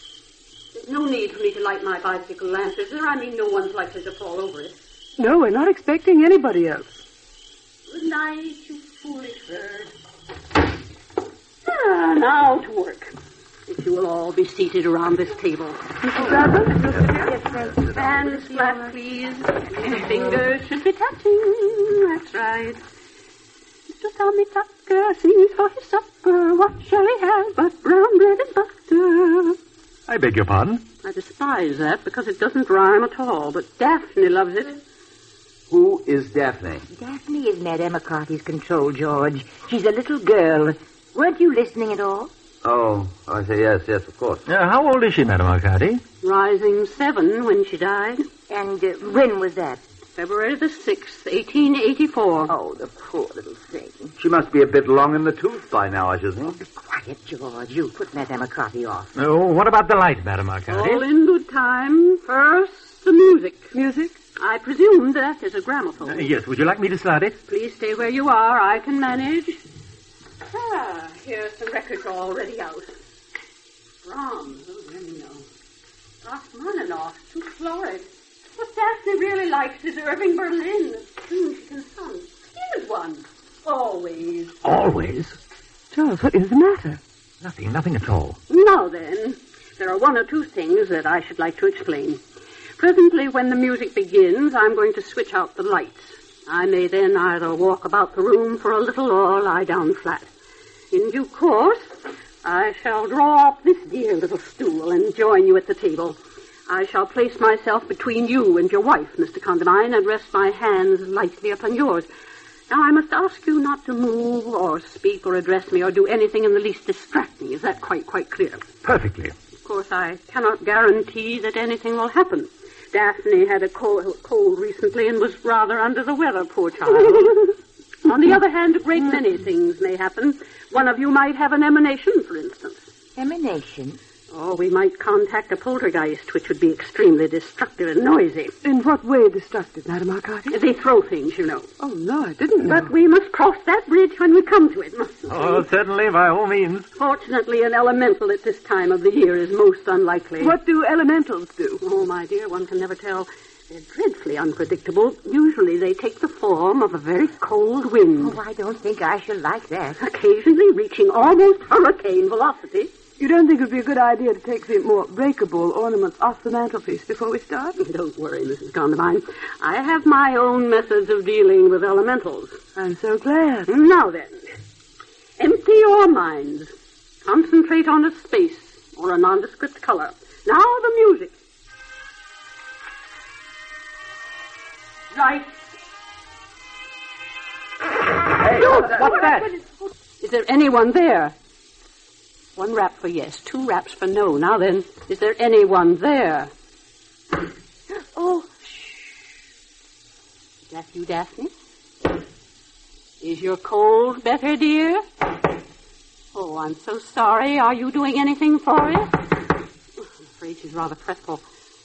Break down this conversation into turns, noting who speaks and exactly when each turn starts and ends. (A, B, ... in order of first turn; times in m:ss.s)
0:00.7-0:04.8 A
0:05.2-0:07.0 B
0:07.9-0:09.9 A
0:11.6-0:13.1 A
0:13.7-0:15.8 A
0:16.0-0:17.4 B
0:17.0-0:19.0 C
0:17.8-0:22.8 A
0:19.8-0:20.3 C
0:23.9-0:29.6 A
0:30.1-0:30.8 D
0:31.0-0:34.8 A
0:35.7-0:36.8 E
0:36.9-0:42.3 C
0:42.6-0:44.4 E
0:44.5-0:46.0 D
0:46.2-0:48.2 A
0:48.5-0:49.8 C
0:50.2-0:52.5 A
0:52.5-0:54.1 C
0:54.2-0:56.6 E
0:56.6-0:59.1 C
0:59.1-1:01.0 D
1:00.7-1:03.7 A
1:03.7-1:04.2 B
1:04.4-1:06.2 A
1:06.1-1:07.4 D
1:07.4-1:09.6 A
1:10.5-1:12.9 A
1:14.0-1:15.4 A
1:16.2-1:24.5 A
1:24.6-1:25.4 D
1:25.9-1:27.0 B
1:27.4-1:28.4 D
1:28.5-1:32.2 A
1:32.8-1:40.3 A
1:40.9-1:52.1 A
1:52.7-1:58.6 A
1:58.8-1:59.3 D
1:59.6-2:12.9 A
2:13.2-2:14.0 C
2:14.3-2:18.5 A
2:18.6-2:20.6 B
2:20.5-2:21.7 A
2:21.8-2:22.9 B
2:22.6-2:25.6 A
2:25.3-2:26.9 D
2:27.0-2:30.6 A
2:30.4-2:31.8 B
2:31.8-2:38.4 A
2:38.2-2:40.0 C
2:40.0-2:42.9 A
2:43.2-2:47.8 B
2:47.8-2:52.6 A
2:52.8-2:53.7 B
2:53.7-2:54.4 A
2:55.4-2:56.7 A
2:57.2-3:01.3 A
3:05.1-3:05.5 A
3:08.6-3:09.4 A
3:08.6-3:09.5 C
3:10.2-3:11.3 A
3:12.6-3:16.5 A
3:18.1-3:19.0 C
3:20.7-3:21.5 A
3:23.2-3:25.0 A
3:26.3-3:29.2 A
3:30.0-3:31.4 A